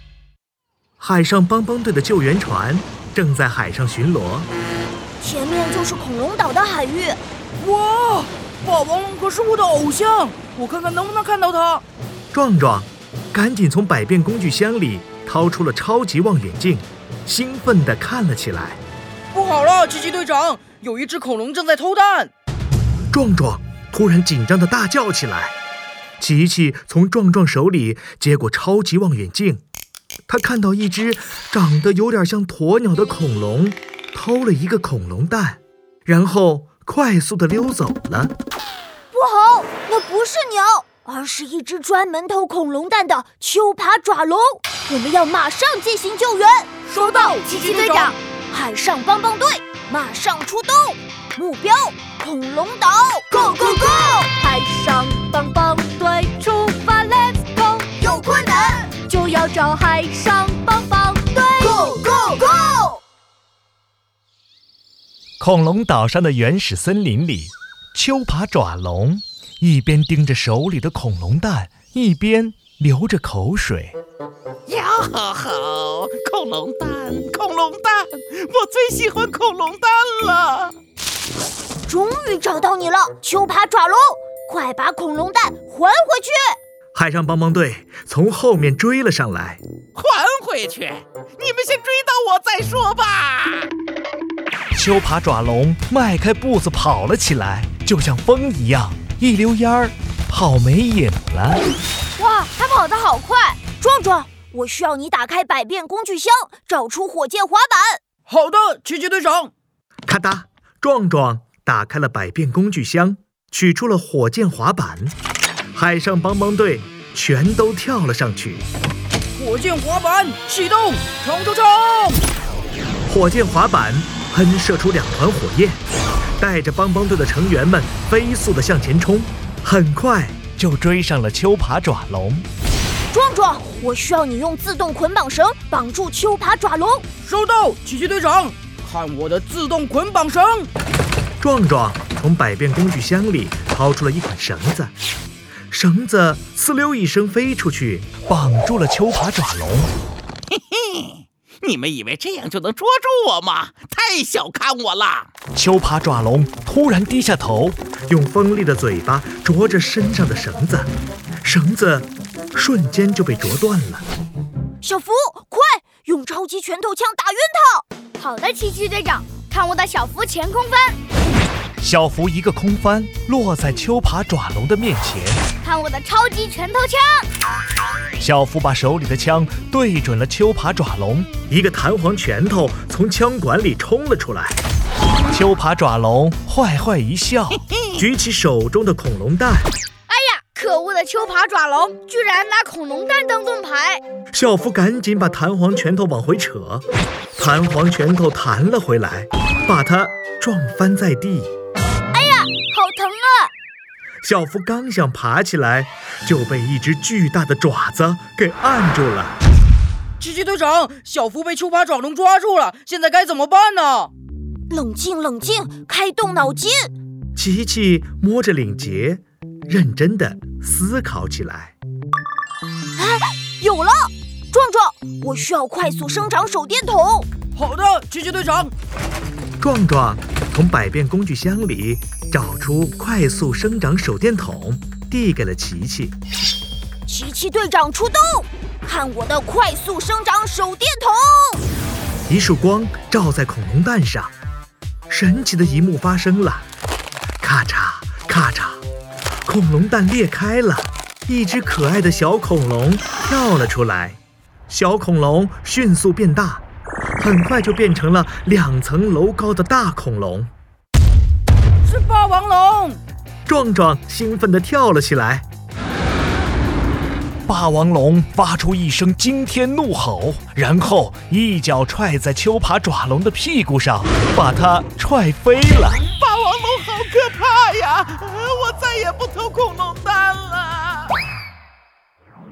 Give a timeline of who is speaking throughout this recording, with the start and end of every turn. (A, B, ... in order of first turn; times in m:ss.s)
0:01.0-0:04.5 A
0:05.2-0:07.2 B
0:07.6-0:11.8 C
0:12.3-0:18.8 A
0:19.3-0:22.3 C
0:23.1-0:25.5 A
0:26.2-0:29.6 A
0:30.3-0:38.3 A
0:39.1-0:46.8 B
0:46.9-0:48.1 C
0:47.3-0:54.3 B
0:54.3-0:58.0 D
0:58.0-0:58.9 B
0:58.9-1:01.8 D
1:01.5-1:03.0 B
1:05.4-1:14.0 A
1:14.7-1:20.7 E
1:21.9-1:26.6 B
1:26.9-1:29.6 A
1:30.0-1:33.7 E
1:34.7-1:41.6 A
1:42.2-1:43.7 D
1:43.7-1:48.0 B
1:48.3-1:49.5 C
1:50.1-1:55.1 A
1:55.7-1:58.6 A
1:59.4-2:02.2 C
2:03.0-2:05.8 A
2:06.4-2:12.4 A
2:13.1-2:17.0 B
2:17.2-2:20.7 C
2:21.4-2:24.9 A
2:25.7-2:29.9 A
2:30.6-2:35.3 E
2:35.5-2:40.9 A
2:41.4-2:44.0 A
2:44.8-2:47.8 B
2:48.2-2:51.0 D
2:51.8-2:55.4 A
2:55.6-2:57.2 D
2:58.2-3:04.6 A
3:05.3-3:09.7 A
3:10.1-3:14.0 D
3:14.3-3:16.8 A
3:17.4-3:21.5 A
3:22.1-3:23.5 B
3:24.2-3:29.4 A
3:30.2-3:34.1 C
3:34.7-3:36.9 B
3:37.4-3:41.7 A
3:43.0-3:47.3 B
3:47.6-3:48.7 C
3:49.6-3:56.1 A
3:57.0-4:01.6 B
4:02.3-4:04.3 A
4:05.1-4:06.6 A
4:07.4-4:08.8 A
4:09.4-4:14.2 A
4:14.7-4:16.6 A
4:17.2-4:20.5 A
4:21.8-4:23.0 C
4:23.5-4:25.4 A
4:27.5-4:36.0 A
4:36.1-4:41.1 E